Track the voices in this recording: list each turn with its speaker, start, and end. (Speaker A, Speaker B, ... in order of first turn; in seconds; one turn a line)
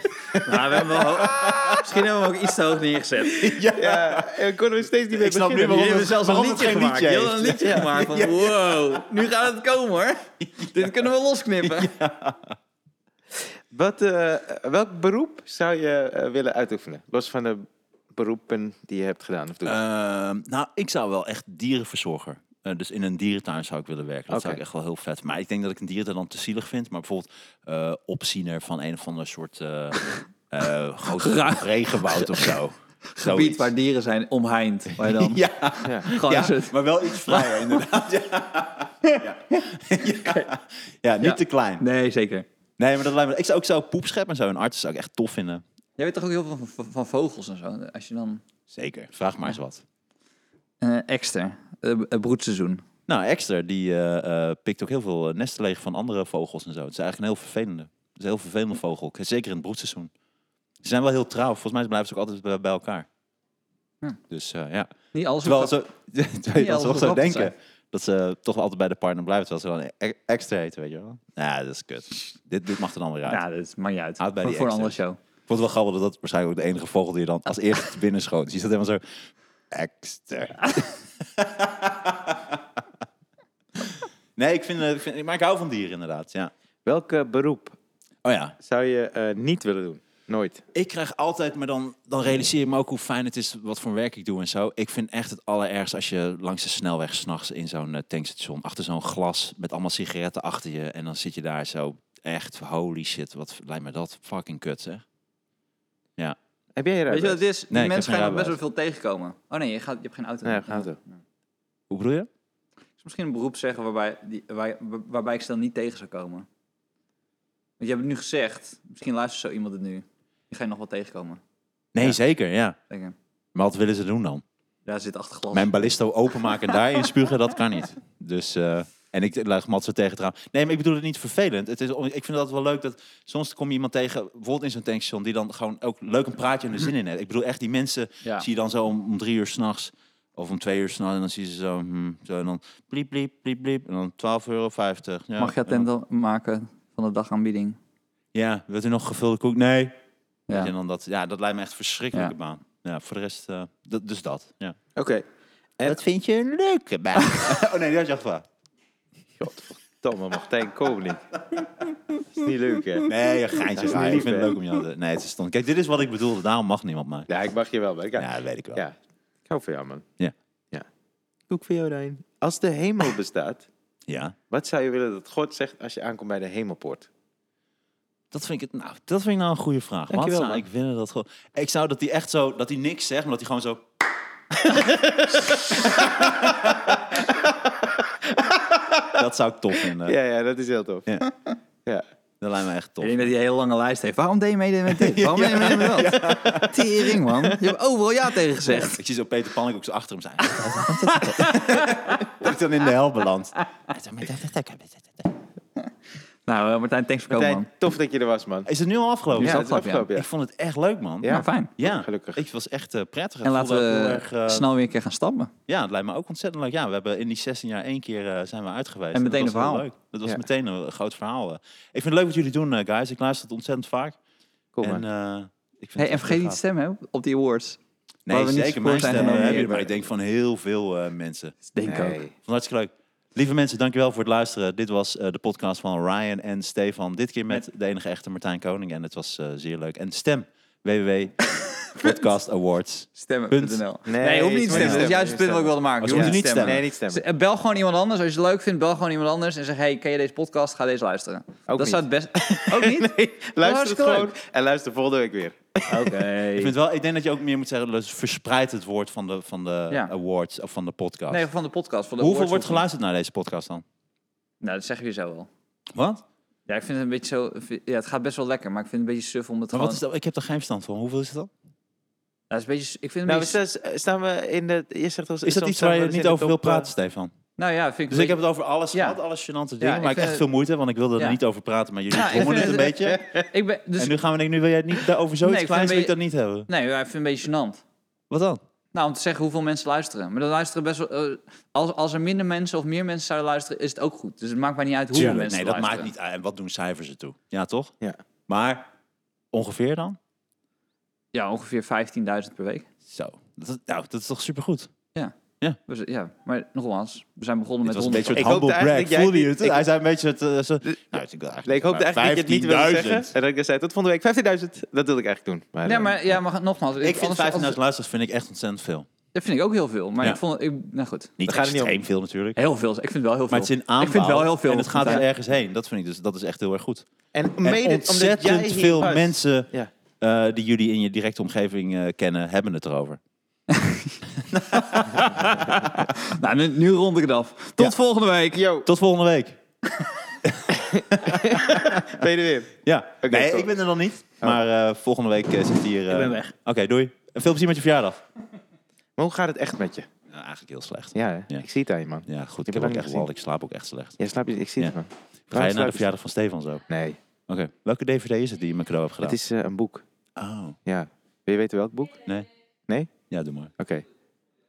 Speaker A: 0.4-3.6
Speaker B: 0.5-2.0
Speaker B: 3.3-4.3
Speaker C: 3.6-6.0
Speaker B: 5.1-8.8
Speaker A: 5.7-11.9
Speaker C: 7.6-7.9
Speaker B: 10.6-10.9
Speaker B: 11.6-12.6
Speaker C: 13.7-19.8
Speaker B: 19.6-33.7
Speaker C: 24.3-24.6
Speaker A: 31.2-32.5
Speaker A: 33.1-37.7
Speaker B: 35.0-41.8
Speaker C: 35.8-36.1
Speaker A: 41.2-42.5
Speaker B: 42.8-45.6
Speaker A: 46.0-48.4
Speaker B: 48.7-49.8
Speaker A: 50.8-52.8
Speaker B: 53.1-60.1
Speaker B: 60.8-63.1
Speaker B: 64.3-64.9
Speaker A: 65.1-65.8
Speaker B: 65.4-73.4
Speaker A: 66.5-67.5
Speaker A: 73.3-75.2
Speaker B: 74.2-79.0
Speaker B: 79.7-82.8
Speaker B: 83.8-86.5
Speaker C: 86.9-87.8
Speaker B: 88.2-88.5
Speaker C: 88.6-90.6
Speaker B: 90.7-105.0
Speaker C: 106.8-107.4
Speaker A: 107.1-111.0
Speaker B: 107.7-108.6
Speaker C: 110.5-111.0
Speaker B: 111.9-112.3
Speaker A: 113.0-116.5
Speaker A: 117.8-121.4
Speaker B: 121.9-122.8
Speaker A: 122.9-123.2
Speaker B: 123.5-124.4
Speaker A: 124.9-125.7
Speaker B: 125.5-145.9
Speaker A: 145.4-147.8
Speaker B: 148.3-149.9
Speaker B: 150.5-154.8
Speaker C: 155.0-155.2
Speaker B: 155.8-158.5
Speaker C: 159.4-161.2
Speaker C: 162.2-163.1
Speaker B: 163.1-167.3
Speaker C: 163.7-164.6
Speaker C: 167.3-168.9
Speaker B: 168.2-168.8
Speaker C: 169.5-170.1
Speaker C: 171.5-173.7
Speaker B: 174.1-174.4
Speaker C: 174.5-177.1
Speaker B: 178.3-183.8
Speaker C: 180.1-180.6
Speaker C: 184.6-186.6
Speaker B: 186.2-187.2
Speaker C: 187.3-189.2
Speaker B: 189.1-190.2
Speaker C: 190.0-191.1
Speaker B: 192.4-193.3
Speaker A: 193.0-199.0
Speaker B: 194.9-196.9
Speaker B: 198.7-205.3
Speaker A: 200.7-202.2
Speaker A: 206.5-207.7
Speaker C: 207.3-208.7
Speaker B: 208.7-214.7
Speaker A: 209.4-210.1
Speaker C: 209.4-210.3
Speaker C: 211.2-212.4
Speaker A: 211.3-211.7
Speaker A: 213.4-215.5
Speaker B: 215.7-224.2
Speaker A: 219.1-219.9
Speaker C: 224.8-225.1
Speaker B: 224.8-226.6
Speaker A: 226.0-227.8
Speaker B: 228.3-231.6
Speaker A: 228.3-229.9
Speaker A: 231.7-232.2
Speaker C: 231.8-232.3
Speaker B: 232.4-243.8
Speaker A: 243.2-254.3
Speaker C: 244.1-247.2
Speaker B: 244.7-245.2
Speaker B: 246.0-246.8
Speaker C: 251.7-256.2
Speaker A: 255.9-256.7
Speaker B: 256.5-261.5
Speaker A: 261.3-262.9
Speaker B: 262.2-263.8
Speaker A: 264.6-265.5
Speaker B: 265.9-266.2
Speaker A: 266.7-270.0
Speaker B: 269.7-271.5
Speaker A: 272.5-273.6
Speaker C: 273.3-276.9
Speaker B: 275.4-277.3
Speaker A: 277.6-278.4
Speaker B: 278.1-283.2
Speaker A: 278.9-279.2
Speaker A: 279.8-280.4
Speaker A: 282.1-284.1
Speaker B: 284.0-286.7
Speaker A: 285.4-286.1
Speaker A: 286.7-287.8
Speaker B: 288.3-288.6
Speaker A: 288.9-296.1
Speaker B: 295.1-297.9
Speaker B: 298.5-298.9
Speaker B: 299.5-300.2
Speaker A: 301.3-302.9
Speaker B: 303.1-304.9
Speaker A: 305.9-308.5
Speaker B: 307.9-313.3
Speaker C: 308.3-309.9
Speaker C: 311.7-316.3
Speaker A: 315.9-317.8
Speaker B: 317.0-319.1
Speaker A: 319.3-321.3
Speaker B: 321.4-322.6
Speaker C: 321.5-322.0
Speaker A: 322.6-325.3
Speaker B: 323.5-327.1
Speaker C: 327.3-329.9
Speaker B: 327.6-329.7
Speaker B: 330.2-333.2
Speaker A: 333.7-334.2
Speaker B: 334.3-335.3
Speaker A: 334.7-338.6
Speaker C: 338.5-338.9
Speaker B: 338.9-339.6
Speaker B: 340.4-342.3
Speaker C: 340.8-343.7
Speaker B: 342.9-348.2
Speaker A: 346.1-346.5
Speaker C: 349.2-350.1
Speaker B: 350.3-351.7
Speaker C: 351.2-353.3
Speaker B: 352.3-354.2
Speaker C: 354.2-356.1
Speaker B: 355.5-356.9
Speaker C: 356.9-357.2
Speaker B: 357.5-359.4
Speaker C: 359.2-360.0
Speaker B: 360.4-360.8
Speaker C: 360.9-362.2
Speaker B: 362.2-362.5
Speaker B: 363.3-363.7
Speaker C: 363.8-364.1